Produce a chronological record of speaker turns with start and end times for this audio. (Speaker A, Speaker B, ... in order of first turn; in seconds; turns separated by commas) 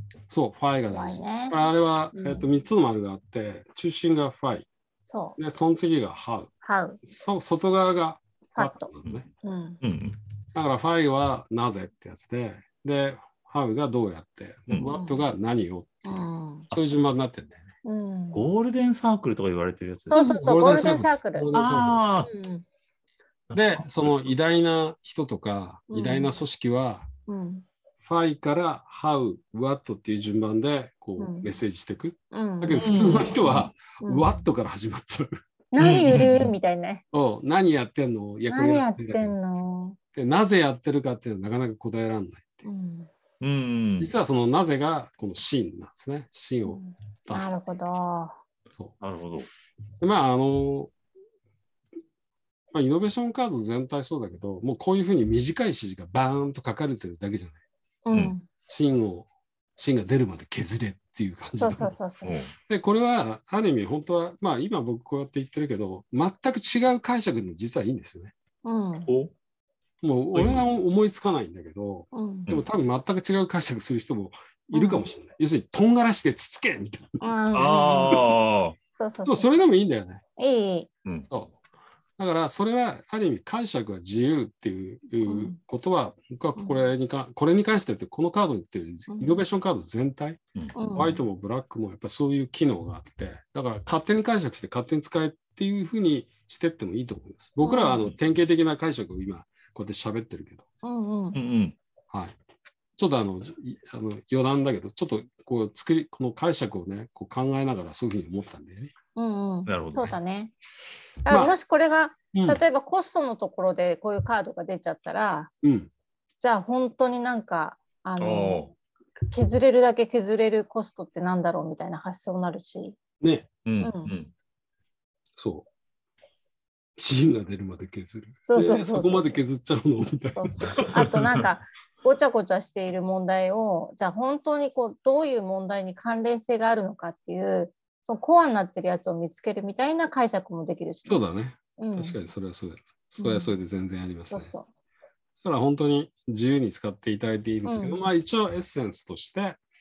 Speaker A: 0.3-4.7, Speaker B: 0.9-1.6, Speaker B: 2.1-2.5, Speaker B: 5.0-5.4, Speaker A: 5.4-6.5, Speaker B: 6.6-7.0, Speaker A: 7.0-9.3, Speaker B: 8.6-8.9, Speaker B: 9.4-9.8, Speaker C: 9.8-10.2, Speaker A: 10.5-17.6, Speaker B: 14.8-15.3, Speaker B: 16.1-16.7, Speaker B: 17.8-18.4, Speaker C: 18.3-20.2, Speaker B: 20.1-21.5, Speaker A: 20.1-22.0, Speaker C: 21.5-22.3, Speaker B: 22.2-22.6, Speaker C: 23.5-24.3, Speaker A: 23.5-27.1, Speaker B: 25.9-26.4, Speaker B: 27.3-27.6, Speaker A: 28.0-35.4, Speaker B: 31.2-31.5, Speaker B: 32.3-34.4, Speaker C: 32.7-33.3, Speaker B: 35.7-37.0, Speaker C: 35.8-36.5, Speaker A: 37.1-39.4, Speaker B: 38.5-40.0, Speaker A: 40.1-42.6, Speaker B: 42.6-43.1, Speaker C: 43.4-44.1, Speaker A: 44.0-47.6, Speaker B: 46.7-48.4, Speaker C: 49.0-49.5, Speaker A: 50.0-50.9, Speaker A: 52.7-57.6, Speaker B: 58.1-58.5, Speaker A: 58.7-62.0, Speaker B: 61.6-62.4, Speaker C: 62.2-62.5, Speaker A: 62.7-68.3, Speaker B: 68.6-69.1, Speaker C: 69.1-69.3, Speaker A: 70.0-77.2, Speaker C: 70.3-70.7, Speaker B: 72.1-72.5, Speaker B: 74.7-75.1, Speaker B: 77.2-78.3, Speaker C: 77.5-78.8, Speaker B: 79.0-79.6, Speaker A: 79.2-80.2, Speaker B: 80.4-80.9, Speaker A: 81.3-81.6, Speaker A: 82.2-90.4, Speaker B: 85.2-85.6, Speaker B: 86.6-86.8, Speaker B: 89.1-89.5, Speaker B: 90.8-91.2, Speaker A: 90.9-100.7, Speaker B: 97.6-98.0, Speaker B: 100.8-101.4, Speaker C: 101.3-101.8, Speaker A: 102.1-102.4, Speaker A: 103.0-108.9, Speaker B: 109.2-110.5, Speaker C: 109.7-110.2, Speaker B: 111.3-115.5, Speaker A: 111.3-111.5, Speaker A: 112.3-112.6, Speaker A: 115.6-115.9, Speaker B: 116.4-118.7, Speaker C: 118.2-118.7, Speaker B: 119.2-123.0, Speaker A: 123.2-123.5, Speaker C: 123.7-124.3, Speaker B: 123.8-124.2, Speaker A: 125.4-125.7, Speaker A: 127.0-130.9, Speaker B: 128.5-129.4, Speaker B: 130.4-141.2, Speaker C: 130.8-131.4, Speaker A: 141.1-144.5, Speaker B: 141.8-142.2, Speaker B: 143.2-143.6, Speaker B: 144.3-144.7, Speaker A: 145.4-149.6, Speaker B: 147.7-148.0